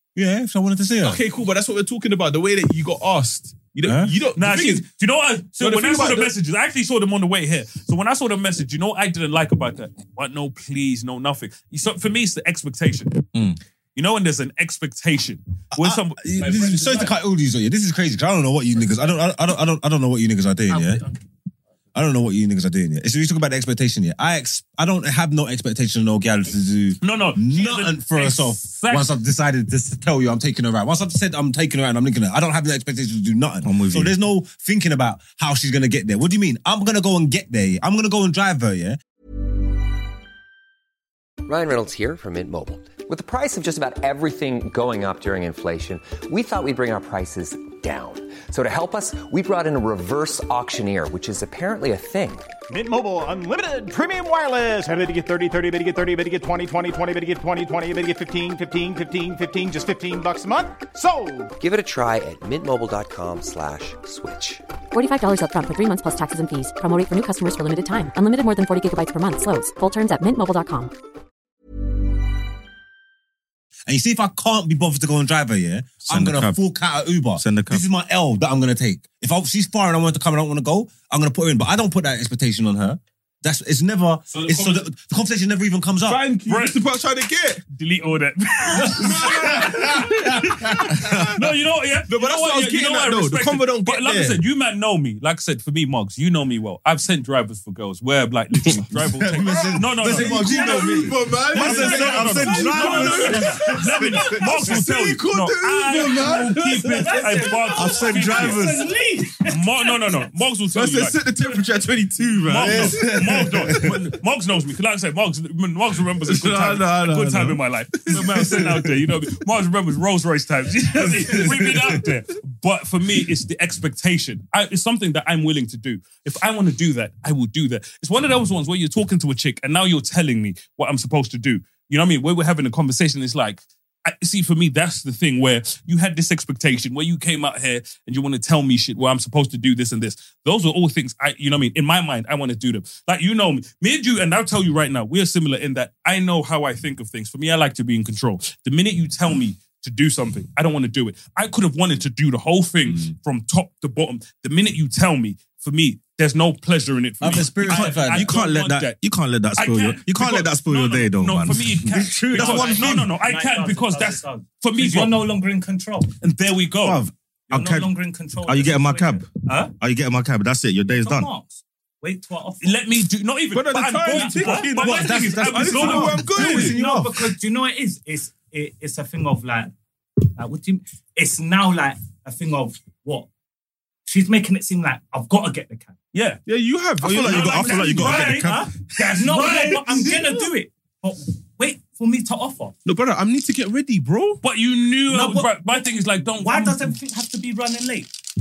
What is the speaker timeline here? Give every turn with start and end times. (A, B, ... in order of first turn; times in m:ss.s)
0:00.1-0:01.2 A
0:01.0-0:04.9 B
0:03.8-0:04.1 A
0:04.4-0:13.3 C
0:05.6-0:06.3 B
0:13.9-0:17.1 C
0:15.7-0:21.0 A
0:21.9-0:39.0 A
0:27.0-0:29.1 C
0:33.6-0:34.1 D
0:41.4-0:52.5 E
0:52.7-1:01.5 F
1:01.6-1:04.6 E
1:04.9-1:10.9 G
1:13.9-1:26.2 A
1:16.1-1:16.6 D
1:17.4-1:17.8 D
1:24.3-1:24.8 B
1:26.1-1:27.6 B
1:26.5-1:26.8 C
1:27.7-1:40.4 C
1:28.8-1:30.5 B
1:29.2-1:30.9 A
1:32.1-1:34.4 B
1:39.2-1:44.7 A
1:40.0-1:43.8 B
1:41.5-1:48.8 C
1:41.6-1:43.0 D
1:44.5-1:46.8 B
1:47.0-1:50.2 H
1:47.8-1:48.6 D
1:49.4-1:51.2 C
1:50.7-1:53.9 B
1:52.2-1:52.9 D
1:52.4-2:39.0 C
1:56.2-1:58.8 B
2:01.2-2:01.7 B
2:37.2-2:38.3 A
2:37.9-2:43.0 D
2:39.6-2:45.2 C
2:41.9-2:42.7 A
2:42.3-2:46.1 H
2:46.2-2:47.0 C
2:46.8-2:47.1 A
2:47.5-2:49.7 H
2:47.5-2:47.9 D
2:48.4-2:51.3 D
2:50.9-2:52.8 H
2:52.6-2:56.3 C
2:53.5-2:56.8 B
2:54.1-2:54.7 H
2:54.8-2:57.3 A
2:56.4-2:59.7 H
3:00.3-3:03.3 H
3:04.1-3:06.0 H
3:06.1-3:06.4 C
3:06.4-3:08.0 B
3:07.0-3:08.7 D
3:07.2-3:12.7 H
3:07.3-3:10.2 C
3:12.8-3:14.4 B
3:14.4-3:16.9 C
3:15.1-3:15.6 H
3:16.4-3:18.1 H